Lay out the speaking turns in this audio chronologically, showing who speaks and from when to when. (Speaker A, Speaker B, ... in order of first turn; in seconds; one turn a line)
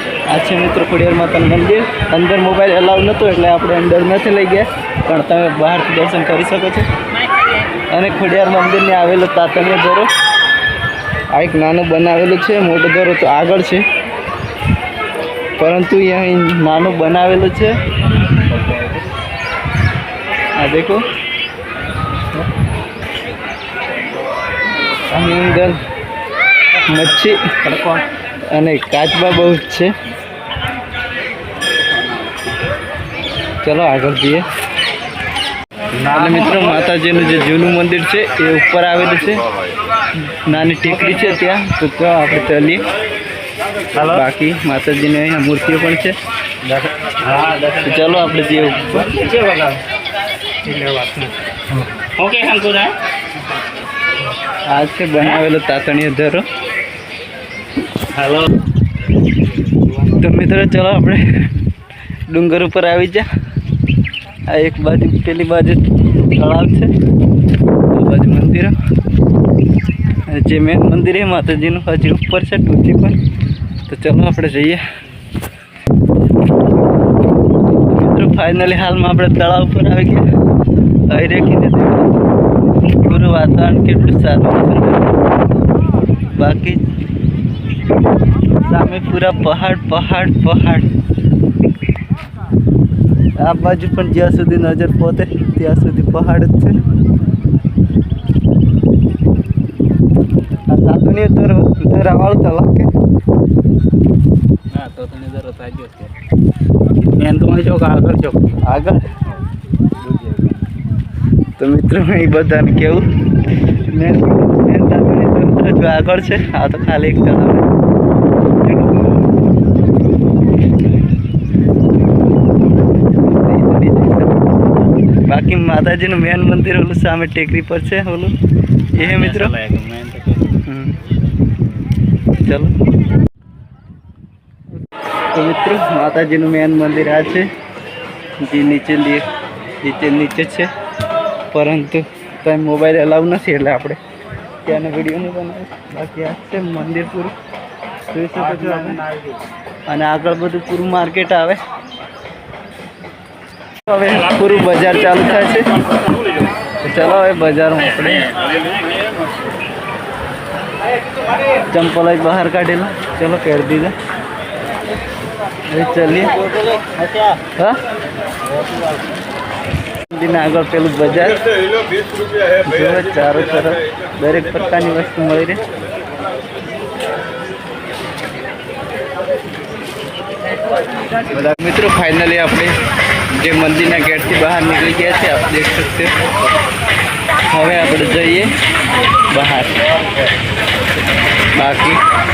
Speaker A: 0.3-6.9
Speaker A: 7.9-10.1
Speaker A: 11.3-13.8
Speaker A: 15.6-17.7
Speaker B: 18.5-19.1
Speaker A: 20.6-21.0
Speaker A: 25.1-25.8
Speaker A: 26.9-27.6
Speaker B: 27.6-28.0
Speaker A: 28.5-29.9
Speaker A: 33.6-34.5
Speaker A: 36.0-39.4
Speaker A: 40.3-42.8
Speaker A: 44.0-46.2
Speaker B: 46.7-48.0
Speaker A: 47.8-49.1
Speaker B: 48.9-49.8
Speaker B: 50.6-51.4
Speaker B: 52.0-53.0
Speaker A: 54.7-56.5
Speaker B: 58.1-58.5
Speaker A: 60.0-61.2
Speaker A: 62.3-63.3
Speaker A: 64.5-65.8
Speaker A: 66.3-66.9
Speaker A: 67.9-68.8
Speaker A: 70.2-73.2
Speaker A: 73.9-74.8
Speaker A: 77.8-80.3
Speaker A: 81.1-82.2
Speaker A: 83.0-85.2
Speaker A: 86.3-86.8
Speaker A: 88.7-90.9
Speaker A: 93.4-96.8
Speaker A: 100.7-102.9
Speaker B: 104.7-106.2
Speaker B: 107.1-108.6
Speaker A: 108.6-109.0
Speaker B: 110.0-110.6
Speaker A: 111.6-113.0
Speaker A: 113.9-117.7
Speaker A: 118.6-119.1
Speaker A: 123.0-124.4
Speaker A: 125.3-128.3
Speaker A: 128.9-129.5
Speaker B: 129.0-130.6
Speaker A: 130.7-131.0
Speaker A: 132.4-132.8
Speaker A: 135.3-137.5
Speaker A: 138.4-139.2
Speaker A: 139.8-140.7
Speaker A: 141.5-144.0
Speaker A: 144.7-147.3
Speaker A: 148.1-149.1
Speaker A: 149.9-151.6
Speaker A: 153.9-155.7
Speaker A: 156.8-158.4
Speaker A: 161.7-163.9
Speaker A: 165.7-166.4
Speaker B: 166.4-167.4
Speaker B: 168.4-169.1
Speaker A: 170.1-171.4
Speaker A: 172.6-175.6
Speaker A: 181.3-182.8
Speaker A: 183.3-186.1
Speaker A: 187.5-188.5
Speaker A: 189.3-189.8
Speaker A: 191.6-192.0